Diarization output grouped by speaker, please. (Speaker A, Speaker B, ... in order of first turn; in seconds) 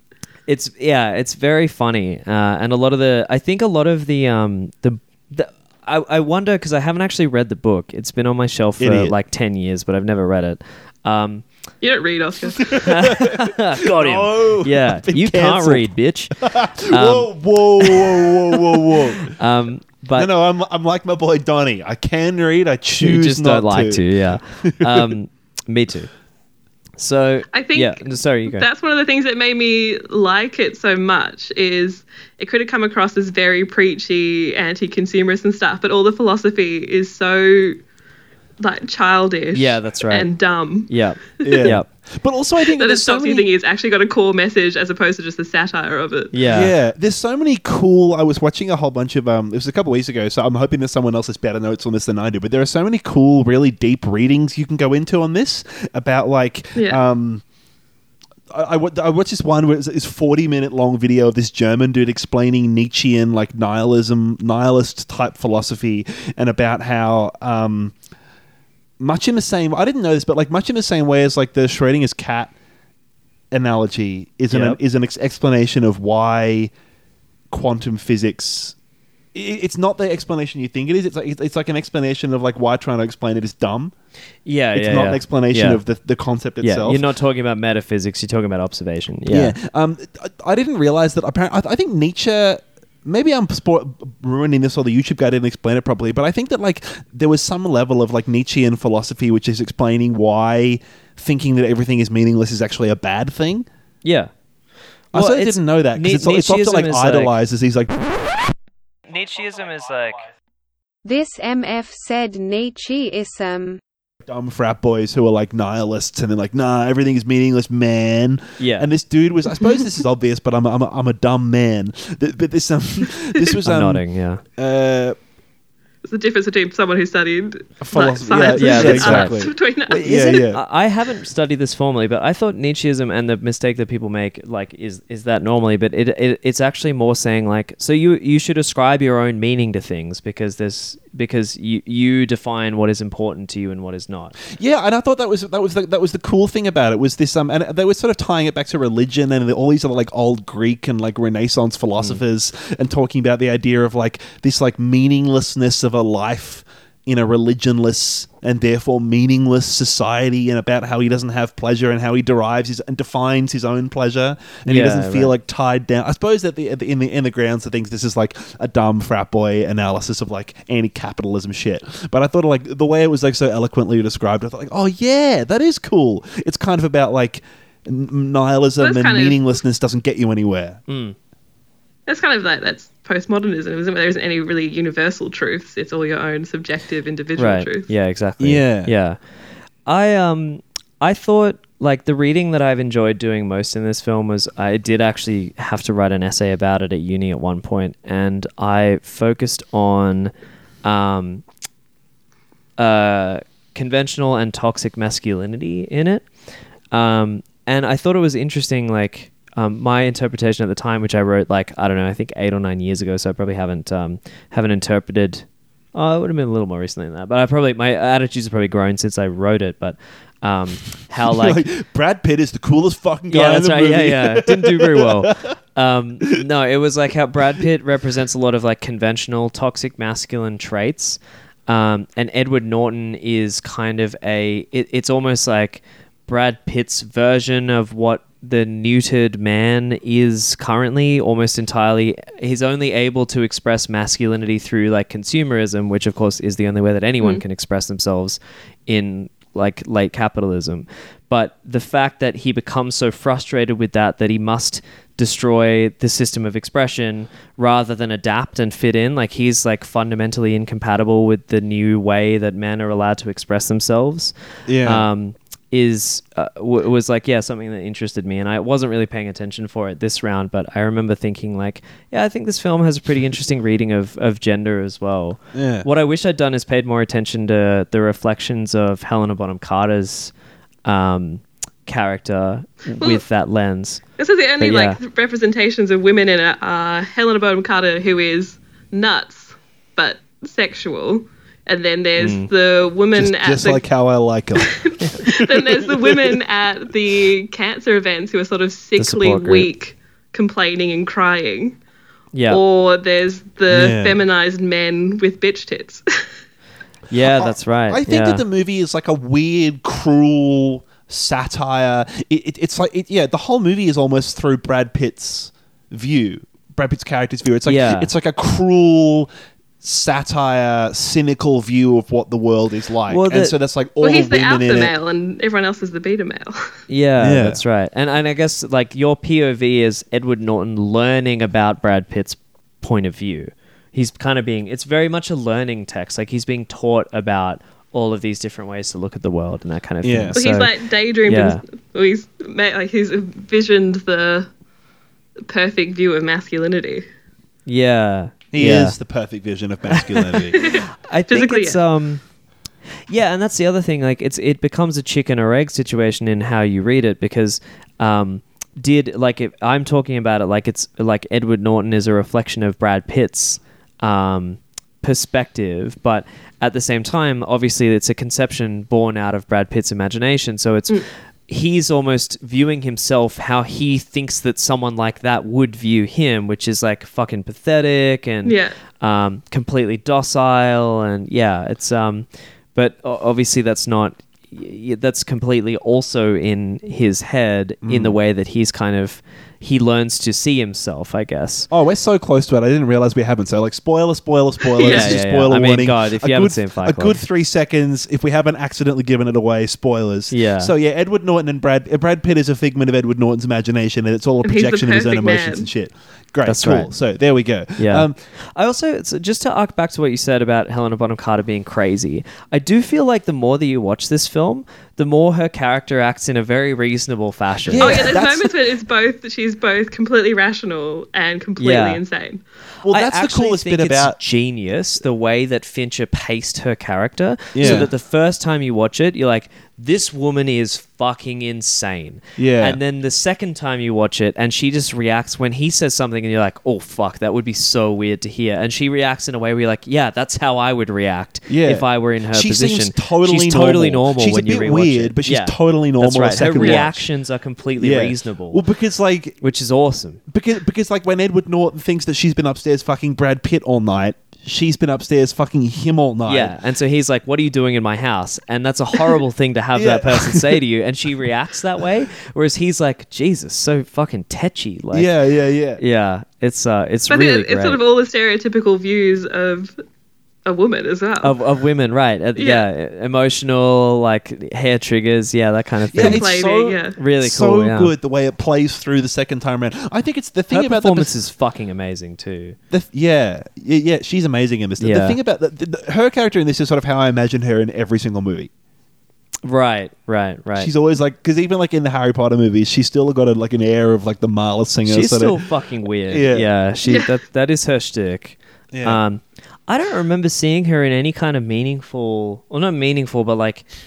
Speaker A: 0.5-11.4, 12.8-16.4, 16.9-20.3, 23.0-26.1, 27.0-28.6, 39.5-40.3, 40.9-41.9, 46.3-46.7, 74.5-74.8, 84.5-85.8, 86.6-89.5, 104.0-104.3, 105.1-107.3, 109.1-110.3, 118.6-118.9, 123.7-124.4, 128.5-129.4, 130.0-144.3, 164.7-165.3, 180.9-181.2, 187.4-189.2, 189.9-200.3, 200.8-201.4, 202.8-206.3, 206.9-221.6, 223.3-280.3, 280.9-284.0, 284.6-285.0, 292.2-292.5, 299.0-299.7, 302.3-302.6, 307.1-308.4, 317.7-318.1, 323.1-323.5, 326.9-340.7, 341.3-341.6, 347.7-349.0, 350.1-352.2, 353.1-391.7, 394.9-397.2, 400.3-400.7, 406.5-406.9, 407.8-418.1, 421.6-422.0, 422.9-448.6, 449.4-450.2, 456.3-465.1, 465.8-467.8, 471.2-476.3, 477.0-477.9, 480.5-482.6, 484.8-485.2, 489.4-490.7, 494.8-503.7
Speaker B: 8.8-9.1, 12.6-19.3, 20.1-24.0, 24.6-25.1, 41.4-43.5, 46.5-57.4, 58.5-68.0, 69.0-72.5, 73.5-76.7, 77.5-78.8, 79.3-83.9, 84.7-87.0, 89.3-103.7, 105.1-108.4, 114.3-124.0, 124.6-125.2, 127.8-130.6, 144.5-180.8, 188.4-188.9, 221.2-225.6, 264.7-265.1, 275.5-275.9, 293.2-296.3, 303.7-304.2, 307.3-319.3, 319.8-324.9, 327.2-327.6, 340.0-340.4, 348.5-350.6, 387.8-388.2, 391.7-408.2, 417.7-418.5, 422.8-424.2, 427.6-427.9, 432.4-432.8, 441.5-447.1, 447.8-449.4, 450.3-456.5, 459.8-460.6, 464.9-465.8, 475.9-481.1, 482.7-488.5, 490.6-495.4, 496.1-496.5, 498.7-499.0
Speaker C: 11.8-12.7, 27.5-37.8, 38.6-41.7, 42.7-46.3, 56.8-57.0, 126.0-130.4, 178.8-179.4, 182.1-187.9, 284.2-293.8, 294.7-301.8, 302.5-306.0, 324.0-326.7, 340.4-344.5, 345.5-347.1, 350.6-351.8, 378.4-378.8, 394.8-395.1, 404.4-405.7, 417.8-422.4, 467.1-469.8, 470.5-471.4, 472.4-472.6, 476.0-477.0
Speaker D: 111.0-113.8